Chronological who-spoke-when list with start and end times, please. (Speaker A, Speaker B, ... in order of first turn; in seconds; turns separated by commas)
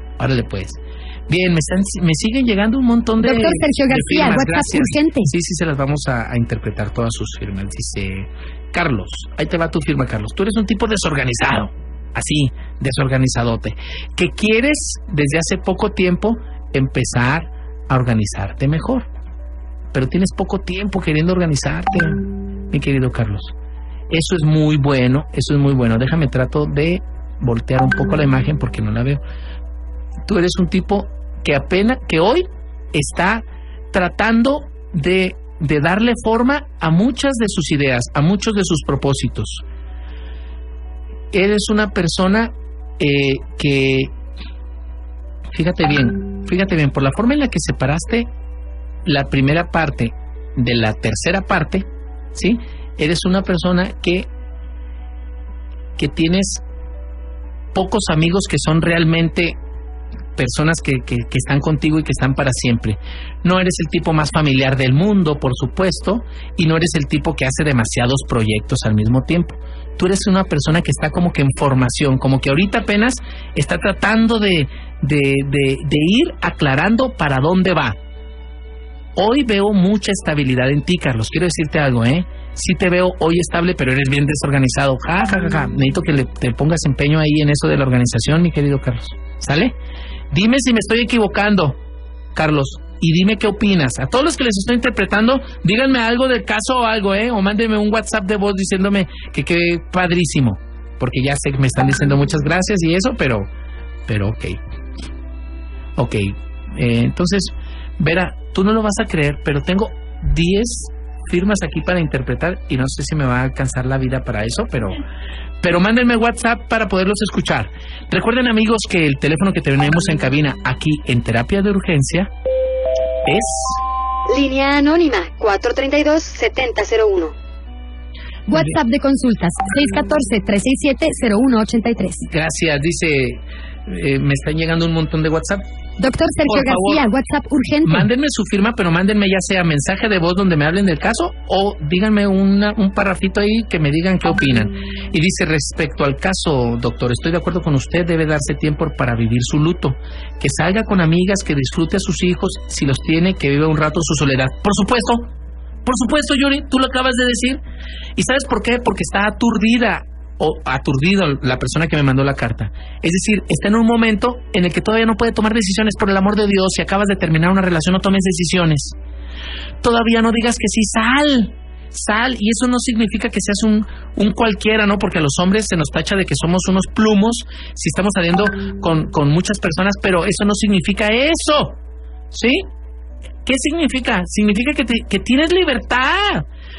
Speaker A: 0.2-19.1, Speaker B: 3.2-5.3, Speaker A: 19.9-22.2, Speaker A: 22.7-23.5, Speaker A: 24.1-29.2, Speaker A: 30.3-39.6, Speaker A: 41.3-44.1, Speaker A: 45.5-48.3, Speaker A: 49.0-54.3, Speaker A: 56.0-56.6, Speaker A: 57.7-59.6, Speaker A: 60.4-78.0, Speaker A: 79.2-89.7, Speaker A: 90.3-91.8, Speaker A: 92.3-103.5, Speaker A: 104.1-104.6, Speaker A: 106.0-115.0, Speaker A: 115.6-122.3, Speaker A: 123.2-123.8, Speaker C: 124.3-127.3, Speaker B: 128.5-132.2, Speaker A: 132.3-135.7, Speaker B: 136.0-138.1, Speaker A: 136.5-137.0, Speaker A: 137.8-155.3, Speaker A: 155.8-157.6, Speaker A: 158.2-168.9, Speaker A: 169.8-181.8, Speaker A: 182.3-182.7, Speaker A: 183.4-186.5